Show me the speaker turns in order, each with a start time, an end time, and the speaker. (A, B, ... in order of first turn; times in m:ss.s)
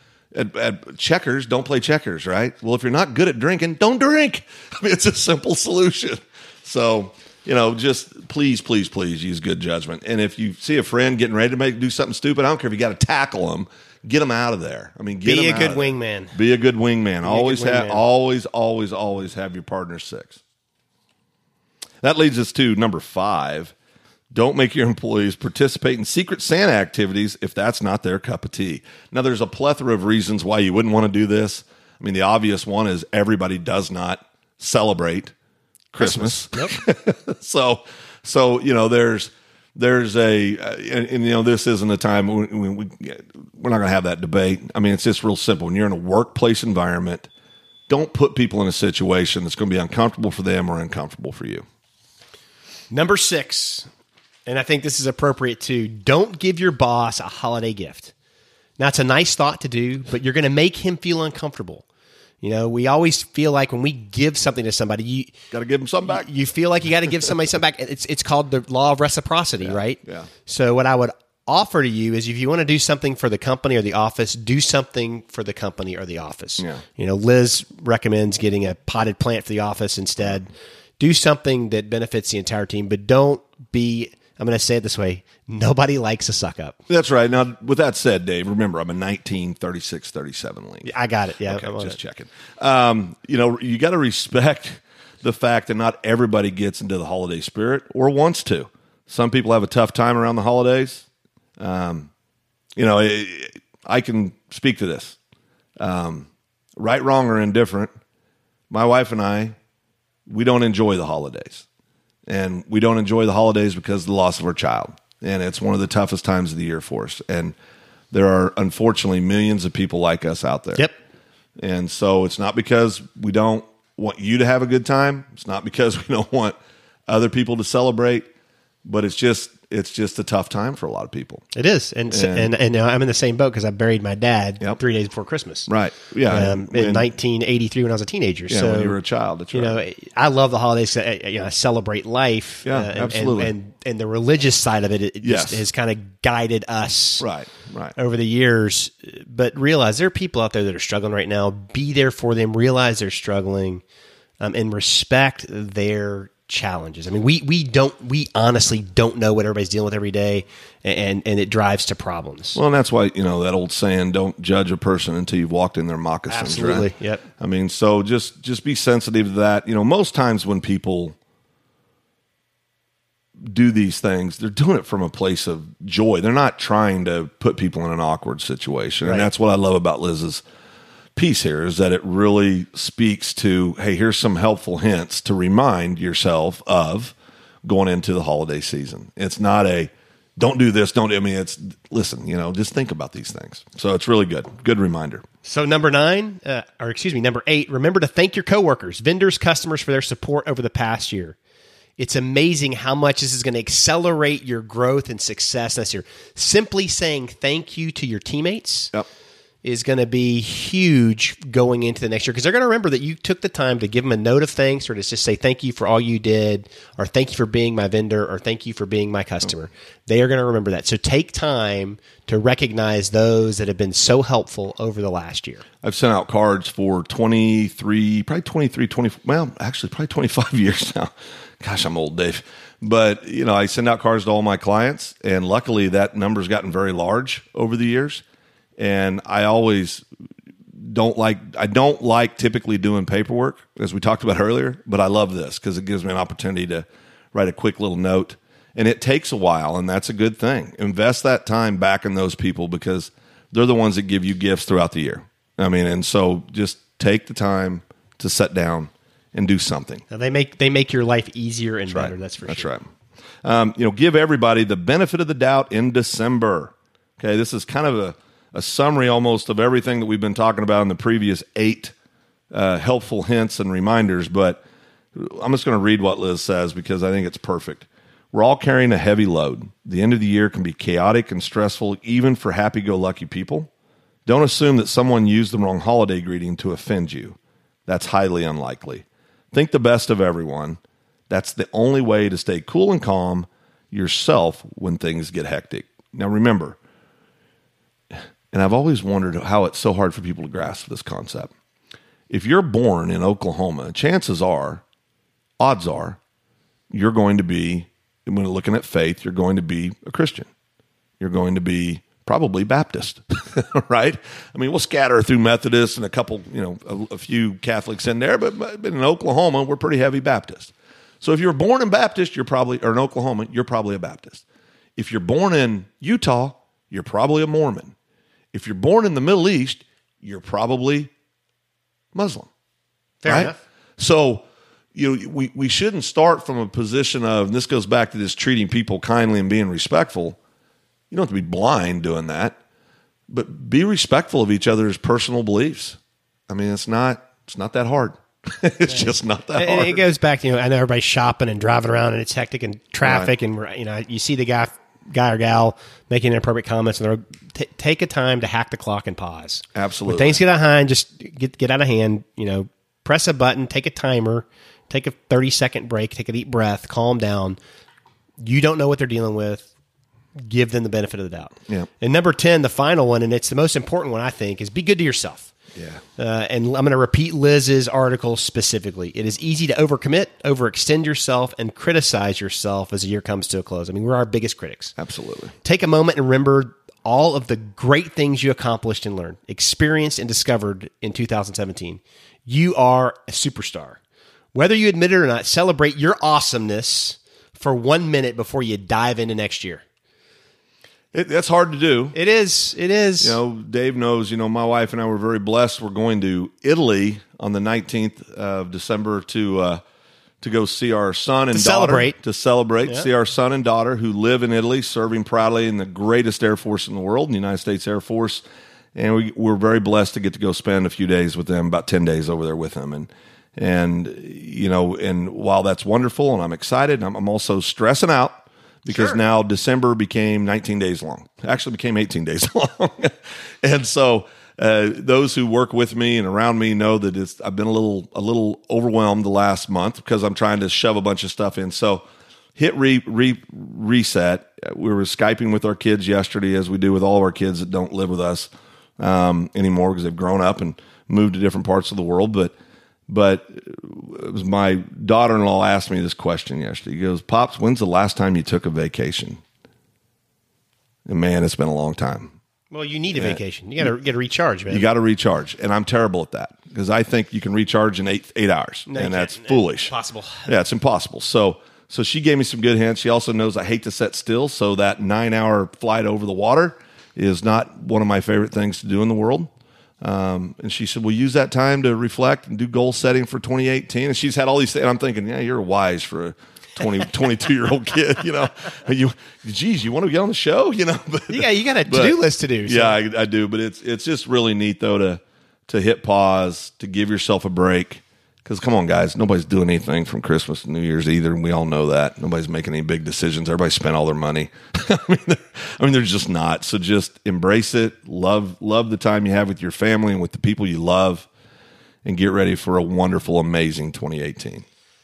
0:00.3-0:20.4 A
0:15.2-0:16.4 B
0:17.2-0:18.0 B
0:22.0-0:23.7 A
0:24.3-0:35.3 A
0:35.9-0:47.3 A
0:36.0-0:36.8 B
0:47.9-0:51.6 A
0:52.9-0:53.9 B
0:54.4-0:58.1 B
0:58.8-1:01.8 B
1:02.4-1:05.3 B
1:05.5-1:06.3 A
1:06.0-1:26.8 B
1:09.6-1:10.3 A
1:26.9-1:30.9 A
1:30.8-1:32.0 B
1:31.5-1:41.1 A
1:41.6-1:42.1 A
1:42.8-1:45.2 A
1:45.8-1:47.9 A
1:48.7-1:49.5 A
1:50.3-1:51.6 A
1:52.3-1:57.5 A
1:58.1-2:00.9 A
2:01.6-2:06.6 A
2:07.1-2:08.2 A
2:08.8-2:11.4 A
2:11.5-2:15.7 B
2:12.1-2:12.5 A
2:15.7-2:17.0 A
2:16.3-2:19.0 B
2:18.5-2:19.8 A
2:19.5-2:27.3 B
2:22.6-2:23.5 A
2:25.2-2:25.6 A
2:27.2-2:27.9 A
2:28.0-2:33.8 B
2:34.4-2:42.6 B
2:42.6-2:46.9 A
2:46.3-2:47.2 B
2:47.4-2:51.2 A
2:53.4-3:00.4 A
2:59.0-2:59.3 B
3:01.2-3:07.1 A
3:07.6-3:15.2 A
3:15.4-3:21.4 B
3:22.0-3:28.9 B
3:29.6-3:45.6 B
3:45.8-3:58.2 A
3:58.8-4:00.0 A
4:00.8-4:20.0 A
4:20.1-4:22.7 B
4:21.9-4:22.8 A
4:23.4-4:31.9 A
4:32.5-4:34.6 A
4:35.1-4:43.7 A
4:44.2-4:56.8 A
4:58.5-5:01.5 A
5:02.3-5:04.8 A
5:05.6-5:06.2 A
5:06.9-5:10.5 A
5:11.2-5:24.4 A
5:25.0-5:27.9 A
5:28.5-5:31.1 A
5:32.1-5:32.5 A
5:33.2-5:33.6 B
5:33.2-5:40.4 A
5:41.1-5:42.6 A
5:43.3-5:46.0 A
5:46.5-5:50.0 A
5:48.9-6:07.6 B
5:53.0-5:53.3 A
5:59.7-6:00.4 A
6:08.4-6:09.7 B
6:10.4-6:15.5 B
6:15.7-6:16.0 A
6:16.2-6:24.9 B
6:25.0-6:25.5 A
6:25.6-6:34.0 B
6:34.5-6:39.8 B
6:41.1-6:42.2 A
6:42.1-6:43.4 B
6:43.2-6:49.8 A
6:50.4-6:58.4 A
6:51.5-6:52.2 B
6:58.9-7:22.0 A
7:08.9-7:09.2 B
7:22.6-7:32.5 A
7:33.1-7:39.4 A
7:41.0-7:42.3 A
7:42.7-7:44.9 B
7:43.1-7:43.9 A
7:44.7-7:49.9 A
7:48.9-7:50.5 B
7:50.4-7:59.5 A
8:00.0-8:31.3 A
8:11.3-8:13.0 B
8:32.0-8:34.6 A